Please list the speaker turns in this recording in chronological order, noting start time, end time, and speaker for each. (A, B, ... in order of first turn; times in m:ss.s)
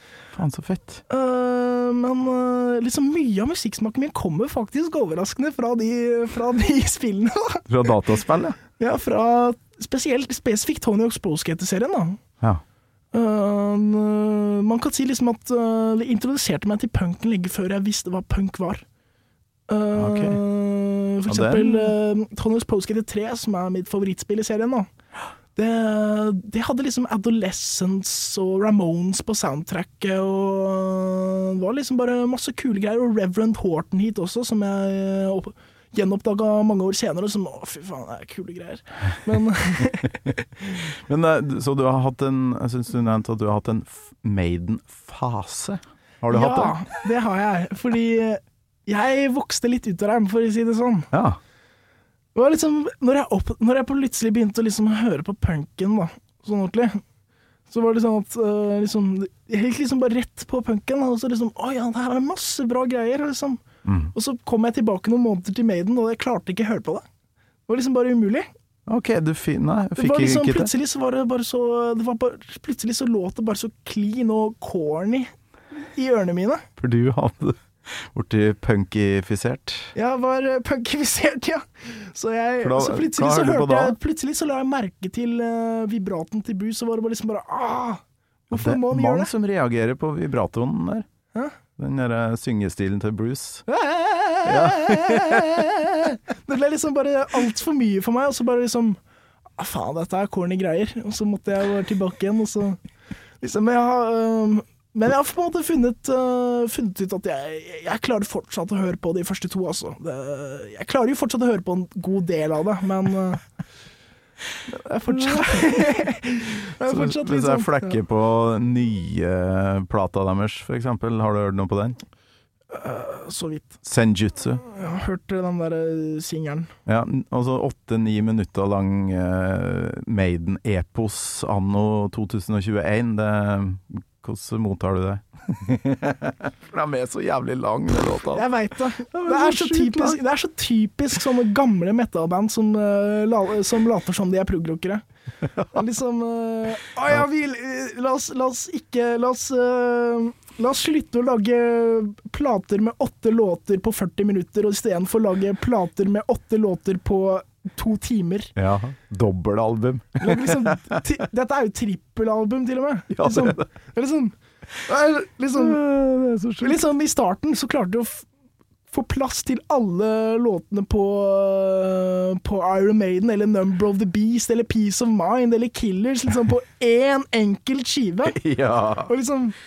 0:00.3-0:01.0 A
0:01.1-0:07.6 B
0:07.7-0:08.6 A
0:08.8-0:12.2 B
0:13.1-0:18.8 B
0:19.7-0:24.9 B
0:19.9-0:20.4 A
0:21.3-0:21.9 A
0:25.5-0:40.3 B
0:40.9-0:46.8 A
0:46.3-0:51.1 B
0:51.1-0:51.4 A
0:52.3-0:57.0 B
0:57.7-1:07.0 B
1:03.8-1:04.1 A
1:07.7-1:08.5 B
1:08.9-1:10.7 A
1:10.0-1:15.3 B
1:15.9-1:16.6 B
1:16.8-1:19.9 A
1:19.9-1:29.3 B
1:22.6-1:24.0 A
1:28.5-1:31.1 A
1:31.8-1:33.6 A
1:33.7-1:39.0 B
1:34.4-1:35.7 A
1:39.6-1:42.8 B
1:43.4-1:53.4 B
1:54.7-1:58.0 B
1:55.1-1:55.8 A
1:56.8-2:02.0 A
2:02.7-2:03.8 B
2:03.8-2:04.6 A
2:04.6-2:06.7 B
2:06.8-2:18.4 A
2:18.3-2:25.0 B
2:19.1-2:20.2 A
2:25.6-2:38.5 B
2:38.6-2:41.0 A
2:40.2-2:44.3 B
2:43.1-2:43.6 A
2:44.8-2:45.8 B
2:45.5-2:46.8 A
2:46.6-2:48.2 B
2:48.9-2:58.4 B
2:58.3-2:59.1 A
2:59.0-2:59.6 B